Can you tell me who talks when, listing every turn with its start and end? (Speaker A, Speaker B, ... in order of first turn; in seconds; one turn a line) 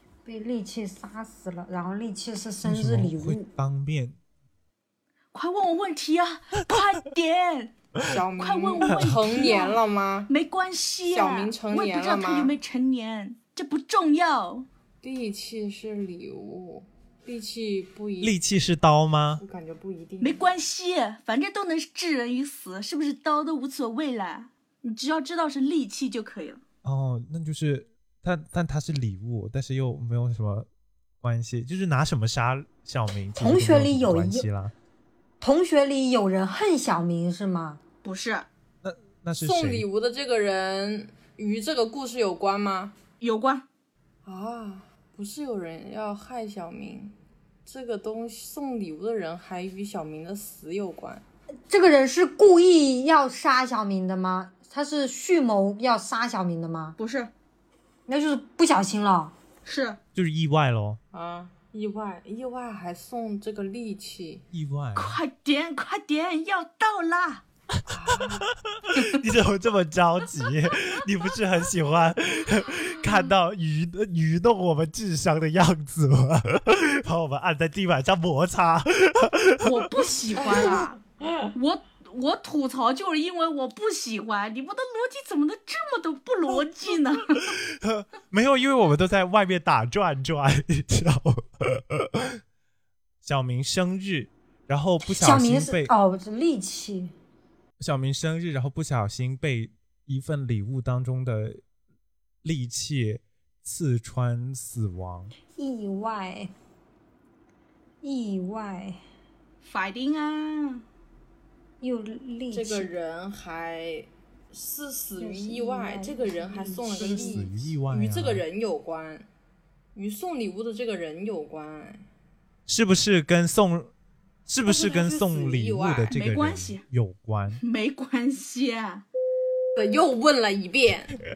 Speaker A: 0.2-3.5
Speaker B: 2.6-4.2
Speaker C: 5.3-7.7
Speaker D: 8.1-10.3
Speaker C: 8.4-14.7
Speaker B: 8.8-9.4
Speaker D: 11.1-12.5
Speaker D: 15.0-18.3
Speaker B: 18.2-19.4
Speaker D: 19.4-20.4
Speaker C: 20.2-26.6
Speaker B: 26.8-30.7
Speaker B: 31.2-34.7
Speaker A: 33.3-34.5
Speaker A: 35.4-37.8
Speaker C: 38.0-38.5
Speaker B: 38.8-39.9
Speaker D: 39.4-42.9
Speaker C: 43.2-43.6
Speaker D: 44.2-47.1
Speaker D: 47.6-51.2
Speaker A: 51.7-57.0
Speaker C: 57.0-57.3
Speaker A: 58.1-59.3
Speaker C: 59.6-60.0
Speaker B: 60.1-61.0
Speaker D: 61.1-64.4
Speaker B: 64.5-65.2
Speaker C: 64.9-67.4
Speaker D: 67.9-68.5
Speaker B: 68.1-80.8
Speaker C: 69.0-69.2
Speaker C: 73.0-73.3
Speaker C: 79.6-87.5
Speaker B: 87.4-92.4
Speaker B: 93.2-95.9
Speaker A: 95.0-97.1
Speaker B: 97.8-101.6
Speaker B: 102.4-105.3
Speaker A: 105.5-106.5
Speaker A: 108.0-109.0
Speaker C: 109.6-110.8
Speaker A: 111.8-112.9
Speaker D: 112.5-119.2
Speaker A: 115.2-117.5
Speaker B: 116.9-118.4
Speaker D: 119.9-122.0
Speaker B: 122.7-123.9
Speaker B: 124.5-127.6
Speaker D: 124.6-126.1
Speaker C: 126.1-126.8
Speaker C: 127.6-129.0
Speaker D: 129.8-131.2